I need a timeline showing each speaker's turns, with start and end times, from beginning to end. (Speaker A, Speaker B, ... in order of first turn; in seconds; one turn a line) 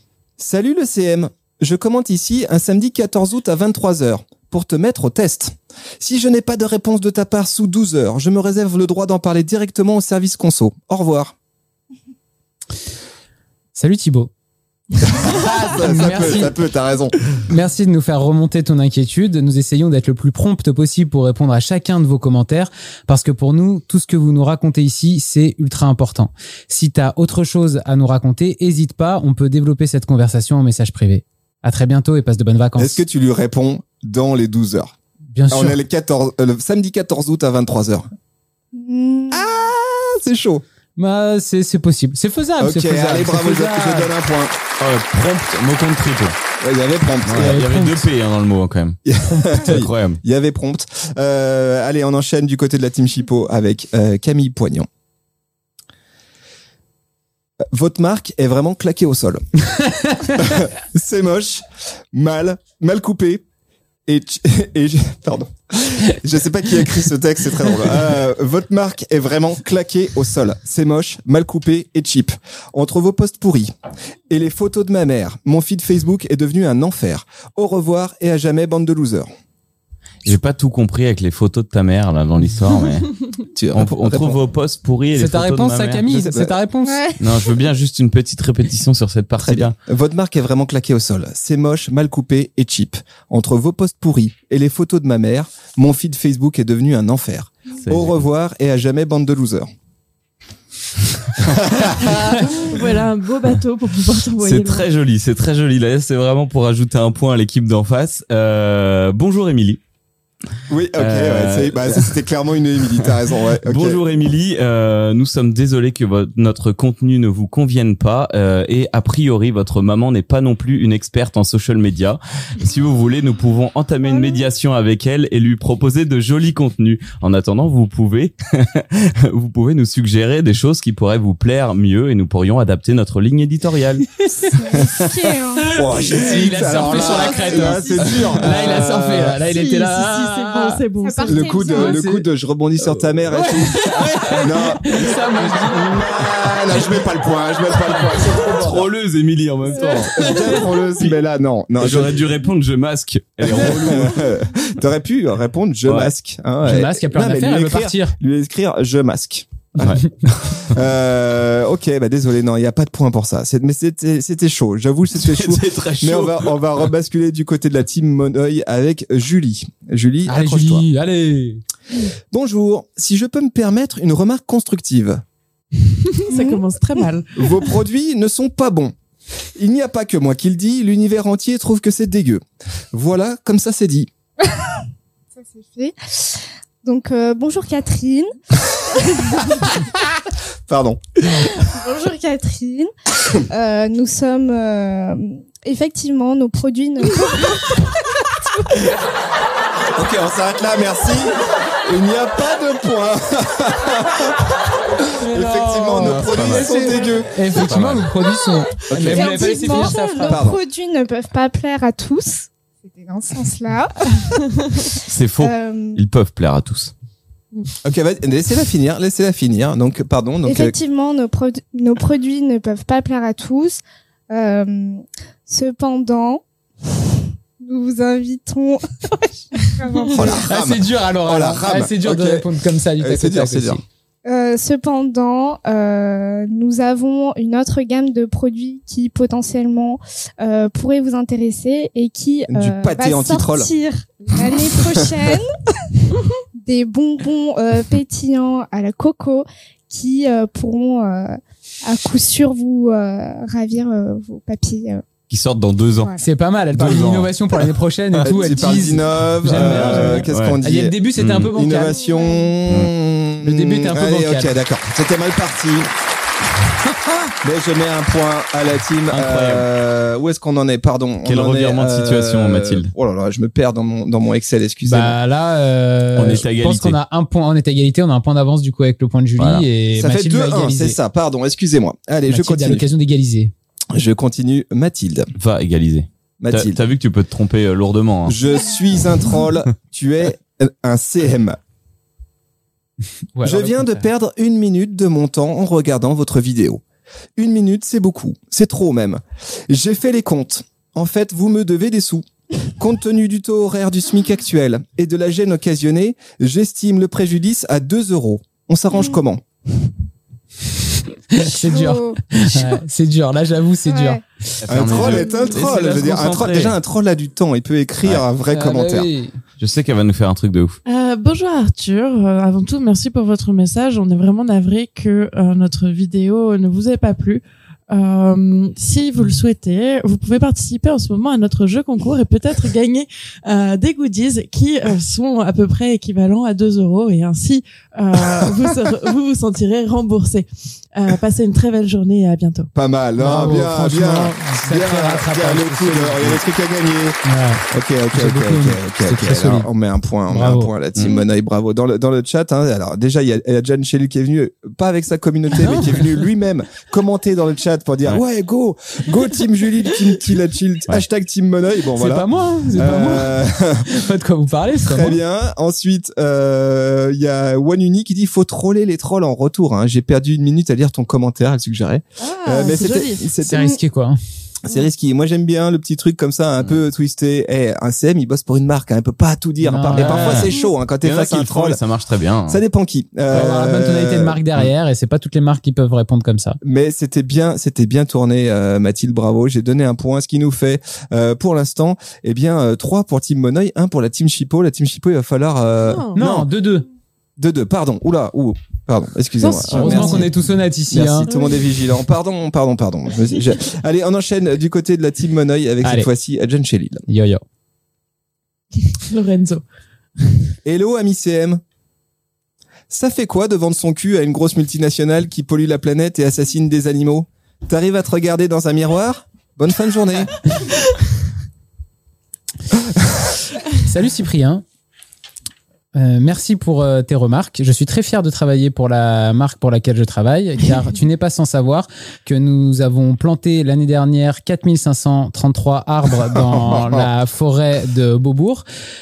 Speaker A: 0.4-11.3
Speaker B: 13.8-14.3
Speaker A: 15.0-17.2
Speaker B: 15.1-16.5
Speaker B: 17.4-33.0
Speaker A: 32.8-34.9
Speaker B: 35.3-35.8
Speaker A: 35.5-38.1
Speaker C: 38.7-39.5
Speaker A: 39.3-40.6
Speaker B: 41.0-44.1
Speaker A: 42.6-44.5
Speaker D: 44.8-46.4
Speaker A: 46.6-47.6
Speaker D: 47.2-49.0
Speaker B: 47.3-48.1
Speaker A: 49.1-54.9
Speaker B: 49.2-49.8
Speaker D: 49.6-50.2
Speaker A: 57.7-59.4
Speaker B: 59.8-60.3
Speaker A: 60.2-63.4
Speaker A: 64.1-73.7
Speaker A: 74.3-79.3
Speaker D: 80.2-86.0
Speaker A: 83.6-84.4
Speaker B: 85.1-87.0
Speaker A: 86.0-86.5
Speaker C: 86.8-87.2
Speaker D: 87.2-89.8
Speaker A: 89.4-99.7
Speaker D: 97.8-98.2
Speaker A: 101.4-102.4
Speaker E: 102.3-104.9
Speaker D: 104.4-109.8
Speaker A: 110.7-114.0
Speaker D: 111.0-112.2
Speaker D: 113.7-134.1
Speaker C: 134.4-135.9
Speaker A: 134.7-135.1
Speaker A: 135.7-139.4
Speaker B: 135.8-140.8
Speaker C: 137.0-137.9
Speaker E: 137.5-138.0
Speaker E: 139.4-141.8
Speaker C: 141.0-142.0
Speaker A: 141.3-148.9
Speaker B: 141.7-142.3
Speaker B: 143.3-146.3
Speaker D: 148.4-150.4
Speaker A: 149.7-152.2
Speaker C: 149.9-150.5
Speaker D: 151.8-154.3
Speaker A: 153.4-160.0
Speaker D: 155.9-156.1
Speaker B: 156.6-158.2
Speaker B: 159.8-160.1
Speaker D: 159.8-160.8
Speaker A: 160.6-170.8
Speaker D: 165.2-166.6
Speaker B: 170.3-171.6
Speaker A: 172.3-175.2
Speaker E: 176.1-177.5
Speaker C: 176.3-176.6
Speaker A: 177.4-178.9
Speaker A: 179.6-184.1
Speaker C: 184.4-184.8
Speaker C: 185.4-189.8
Speaker A: 190.7-191.4
Speaker C: 191.4-197.9
Speaker A: 199.9-204.6
Speaker B: 205.2-210.5
Speaker A: 205.2-207.4
Speaker D: 205.9-208.1
Speaker A: 208.9-210.6
Speaker C: 209.1-216.0
Speaker D: 215.0-216.9
Speaker A: 217.8-220.8
Speaker C: 220.4-226.4
Speaker C: 227.6-230.4
Speaker A: 230.1-233.8
Speaker B: 230.4-233.8
Speaker C: 234.2-245.6
Speaker A: 242.5-243.7
Speaker A: 244.5-245.0
Speaker C: 246.6-255.1
Speaker D: 255.3-256.1
Speaker C: 256.0-256.2
Speaker B: 256.2-262.0
Speaker D: 256.7-257.7
Speaker A: 258.2-261.0
Speaker D: 259.5-260.6
Speaker D: 261.2-261.5
Speaker A: 261.5-265.9
Speaker C: 261.9-262.5
Speaker D: 262.7-262.9
Speaker B: 263.4-264.6
Speaker A: 267.3-275.2
Speaker D: 269.1-269.7
Speaker D: 271.2-272.9
Speaker B: 274.8-281.0
Speaker D: 276.1-277.0
Speaker D: 279.4-279.6
Speaker A: 279.9-282.9
Speaker B: 282.3-283.5
Speaker A: 283.9-285.3
Speaker D: 285.4-288.4
Speaker A: 286.4-286.8
Speaker A: 288.3-291.6
Speaker B: 293.4-294.1
Speaker A: 293.4-296.8
Speaker A: 297.4-309.4
Speaker B: 311.3-314.2
Speaker C: 311.4-312.6
Speaker C: 313.9-314.2
Speaker D: 314.6-316.8
Speaker A: 314.7-319.1
Speaker C: 314.8-315.8
Speaker B: 318.5-319.4
Speaker D: 319.6-320.8
Speaker E: 320.9-342.7
Speaker A: 342.8-364.0
Speaker B: 343.2-346.4
Speaker B: 347.2-349.7
Speaker B: 350.3-350.7
Speaker D: 350.9-351.2
Speaker B: 355.5-356.1
Speaker B: 361.9-365.2
Speaker A: 364.8-373.8
Speaker E: 372.2-373.3
Speaker B: 373.4-374.2
Speaker A: 374.6-381.8
Speaker B: 379.6-380.5
Speaker D: 379.9-382.6
Speaker A: 382.5-384.4
Speaker B: 383.3-386.6
Speaker A: 386.6-396.5
Speaker E: 395.9-396.2
Speaker B: 396.2-396.9
Speaker A: 397.4-400.3
Speaker E: 399.4-400.3
Speaker B: 399.7-401.3
Speaker A: 400.9-407.1
Speaker E: 401.3-401.7
Speaker B: 405.8-406.1
Speaker B: 407.1-407.4
Speaker E: 408.8-409.6
Speaker A: 410.6-411.6
Speaker A: 412.9-420.4
Speaker A: 422.7-423.3
Speaker B: 423.8-424.6
Speaker B: 425.9-438.6
Speaker A: 436.2-437.1